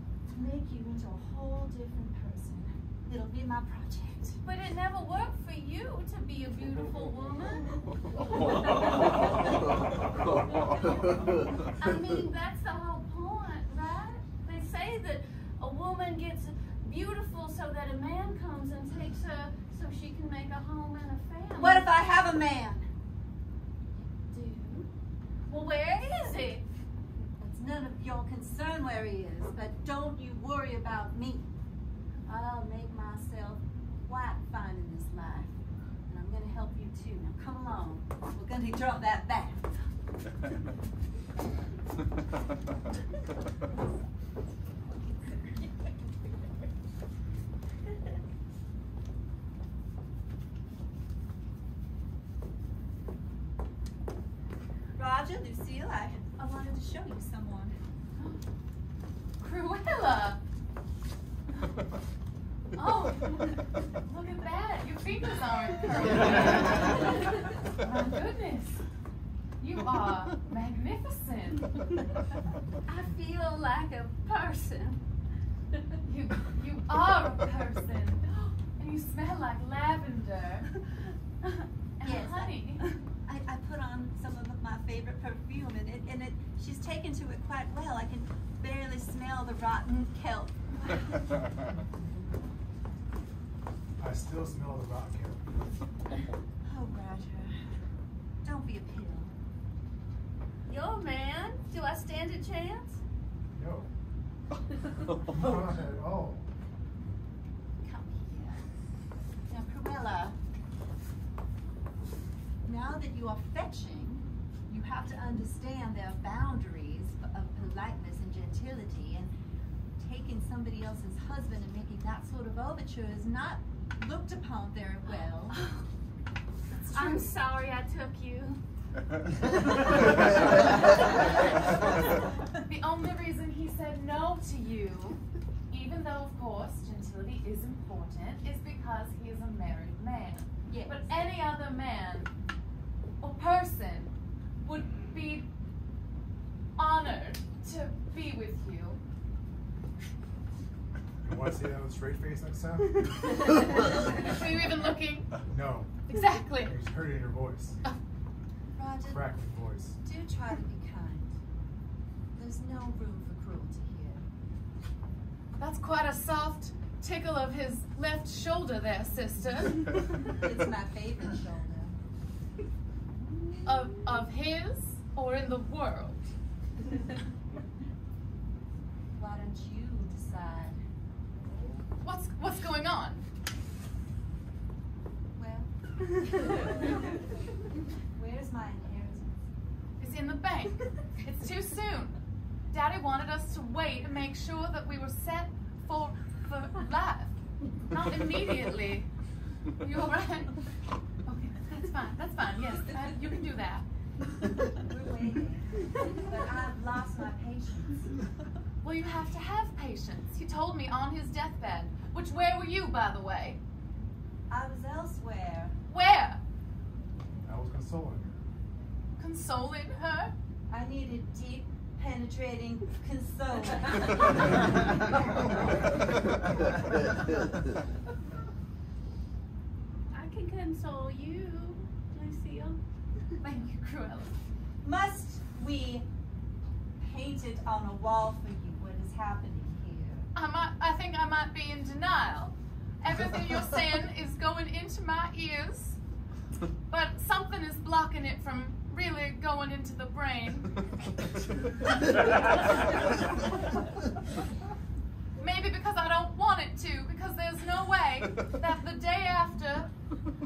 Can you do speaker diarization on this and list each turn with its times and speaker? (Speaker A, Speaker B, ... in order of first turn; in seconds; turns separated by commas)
Speaker A: 0.3-4.4, Speaker B: 4.5-9.5, Speaker B: 10.6-10.9, Speaker B: 11.6-21.9, Speaker A: 21.6-22.9, Speaker B: 24.2-24.9, Speaker B: 25.5-26.7, Speaker A: 27.4-31.5, Speaker A: 32.3-39.9, Speaker A: 55.0-57.8, Speaker C: 59.4-60.4, Speaker C: 62.8-68.8, Speaker C: 69.6-72.0, Speaker B: 72.9-75.0, Speaker C: 76.0-82.9, Speaker A: 82.0-91.3, Speaker D: 94.0-95.5, Speaker A: 96.6-97.6, Speaker A: 98.4-99.4, Speaker B: 100.7-103.0, Speaker D: 103.5-103.9, Speaker D: 105.0-106.5, Speaker A: 107.8-108.6, Speaker A: 109.5-110.4, Speaker A: 112.6-119.3, Speaker A: 120.0-125.7, Speaker B: 125.5-125.8, Speaker A: 126.8-127.3, Speaker B: 126.8-128.6, Speaker C: 132.7-142.3, Speaker A: 140.7-141.3, Speaker C: 143.2-145.5, Speaker C: 146.8-149.0, Speaker D: 151.2-153.2, Speaker C: 154.1-155.3, Speaker D: 155.4-155.9, Speaker C: 156.1-156.8, Speaker D: 156.6-157.8, Speaker A: 158.8-159.3, Speaker D: 159.1-160.0, Speaker A: 160.0-161.4, Speaker A: 162.3-164.3, Speaker C: 165.6-170.2, Speaker A: 170.2-171.9, Speaker A: 173.2-173.9, Speaker C: 173.7-176.2, Speaker A: 179.2-180.8, Speaker C: 182.0-183.2, Speaker A: 185.4-185.7, Speaker A: 186.3-187.2, Speaker A: 188.2-189.5, Speaker C: 190.0-192.2, Speaker C: 192.7-199.1, Speaker C: 199.8-200.7, Speaker C: 201.2-203.9, Speaker A: 204.8-208.3, Speaker C: 208.8-213.6, Speaker A: 214.5-215.8, Speaker C: 215.9-216.4, Speaker D: 217.4-218.5, Speaker C: 219.2-220.3, Speaker A: 220.7-224.5, Speaker B: 230.1-232.8, Speaker C: 233.4-234.4, Speaker A: 234.8-236.1, Speaker A: 237.0-240.3, Speaker C: 240.3-246.0, Speaker C: 246.9-250.8, Speaker C: 255.4-259.9